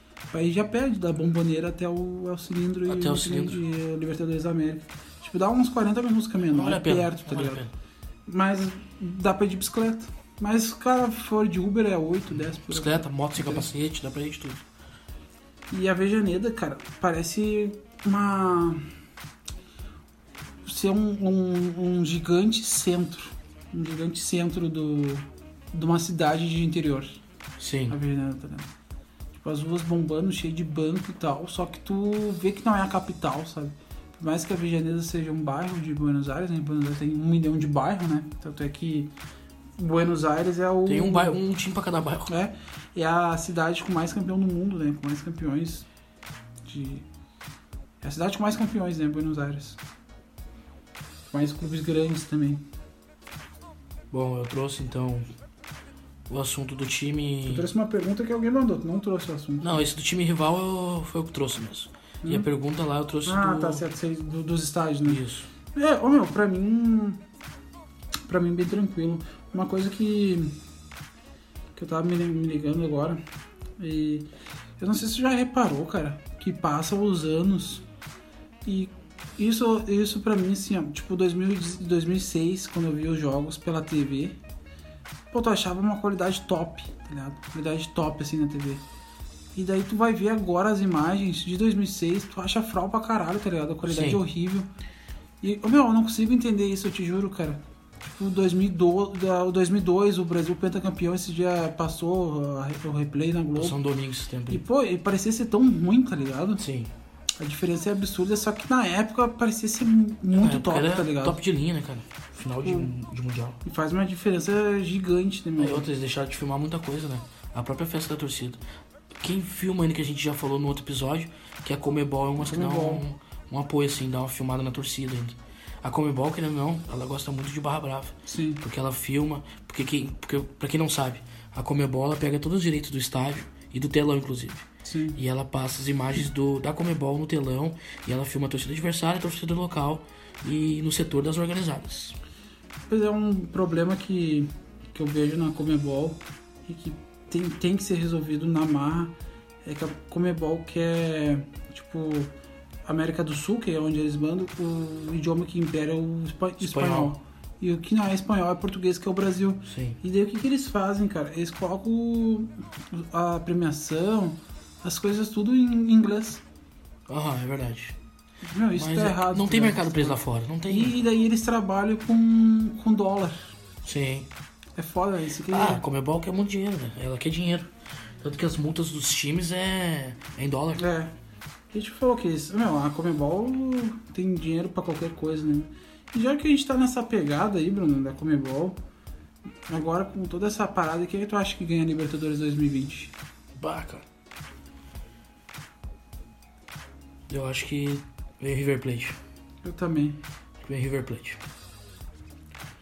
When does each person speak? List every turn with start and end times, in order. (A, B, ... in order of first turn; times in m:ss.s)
0:00.3-0:07.6 A
0:02.9-0:03.6 B
0:06.4-0:07.7 B
0:08.3-0:13.7 A
0:12.3-0:14.6 B
0:15.7-0:18.8 A
0:20.6-0:27.2 A
0:27.6-0:28.0 B
0:27.9-0:28.7 A
0:29.3-0:39.1 A
0:39.8-0:41.4 A
0:40.8-0:42.3 B
0:42.3-0:45.9 A
0:46.6-0:47.0 A
0:48.0-0:49.8 A
0:51.3-0:52.6 A
0:54.1-0:55.3 B
0:56.3-0:57.7 B
0:57.4-0:59.8 A
0:59.6-1:03.8 B
1:03.2-1:05.2 A
1:05.0-1:05.5 B
1:05.7-1:07.2 A
1:08.3-1:10.6 A
1:11.8-1:13.2 A
1:13.8-1:14.3 A
1:14.8-1:17.8 A
1:18.6-1:24.4 A
1:25.3-1:28.8 A
1:29.5-1:34.7 A
1:33.8-1:34.2 B
1:35.4-1:43.8 A
1:43.6-1:44.6 B
1:44.5-1:46.6 A
1:46.6-1:46.9 B
1:47.4-1:51.4 A
1:50.3-1:53.6 B
1:52.4-1:52.9 A
1:53.6-1:55.9 A
1:55.6-1:58.6 B
1:59.2-2:22.2 B
2:02.4-2:03.0 A
2:08.2-2:08.6 A
2:14.8-2:15.2 A
2:22.9-2:29.1 A
2:29.6-2:32.3 A
2:32.8-2:46.4 A
2:36.6-2:37.1 B
2:39.7-2:40.0 B
2:47.1-2:48.0 B
2:48.4-2:53.5 A
2:48.7-2:51.0 B
2:53.8-2:54.3 B
2:54.8-2:55.8 A
2:55.5-3:00.8 B
3:00.8-3:01.1 A
3:01.7-3:08.8 A
3:09.7-3:13.1 A
3:13.6-3:14.0 B
3:17.3-3:19.2 B
3:19.6-3:20.2 A
3:20.6-3:21.4 B